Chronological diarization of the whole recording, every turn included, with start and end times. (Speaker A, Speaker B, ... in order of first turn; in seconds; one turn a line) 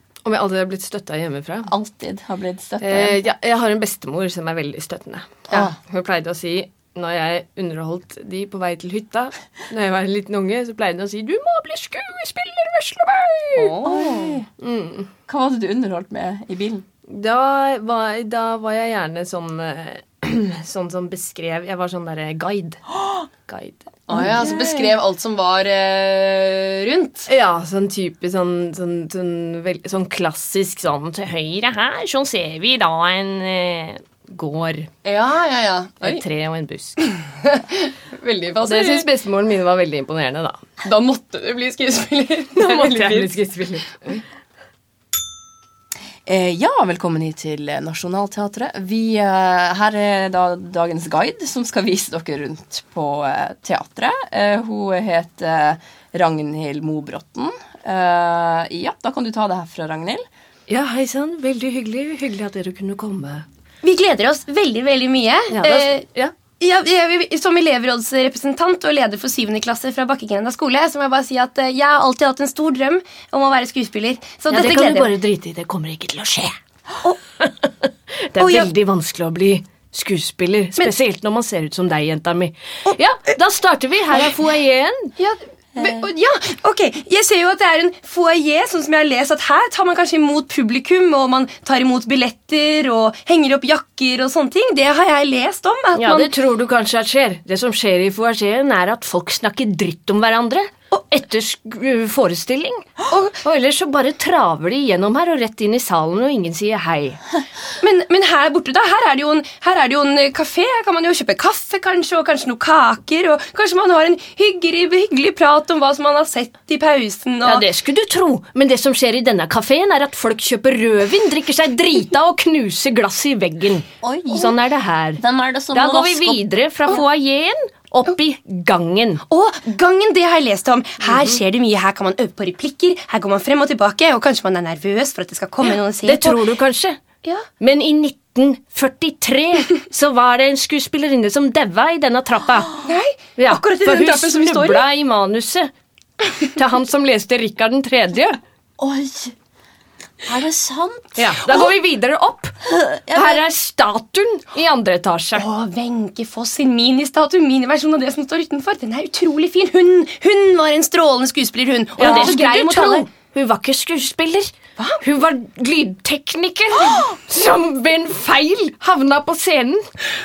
Speaker A: 0.2-1.7
Speaker B: 1.7-3.2
Speaker A: 2.8-13.8
Speaker C: 13.5-14.4
Speaker B: 13.8-14.5
Speaker A: 14.6-15.1
Speaker B: 15.3-16.9
Speaker A: 17.1-22.8
Speaker B: 22.9-23.3
Speaker A: 23.4-24.9
Speaker C: 24.1-27.3
Speaker B: 24.1-24.5
Speaker A: 27.3-34.9
Speaker C: 35.0-36.2
Speaker A: 36.0-37.0
Speaker C: 37.0-39.1
Speaker A: 38.6-40.6
Speaker C: 40.8-43.4
Speaker A: 42.5-44.2
Speaker B: 46.2-60.2
Speaker A: 60.7-63.5
Speaker C: 63.8-66.1
Speaker A: 65.5-66.3
Speaker C: 66.6-75.1
Speaker A: 74.5-85.1
Speaker C: 78.4-78.7
Speaker C: 85.2-96.3
Speaker A: 95.9-107.2
Speaker C: 103.1-103.4
Speaker C: 107.8-117.7
Speaker A: 117.4-129.2
Speaker B: 124.0-124.6
Speaker B: 125.2-126.4
Speaker C: 129.3-136.4
Speaker A: 131.0-131.3
Speaker A: 135.6-137.0
Speaker A: 137.6-142.8
Speaker C: 142.8-144.8
Speaker A: 143.4-145.7
Speaker A: 146.4-148.4
Speaker B: 148.8-149.3
Speaker B: 150.2-151.6
Speaker A: 151.2-152.6
Speaker B: 152.6-153.4
Speaker A: 153.1-155.4
Speaker C: 155.3-163.1
Speaker A: 162.0-169.9
Speaker B: 162.0-162.4
Speaker B: 166.7-167.1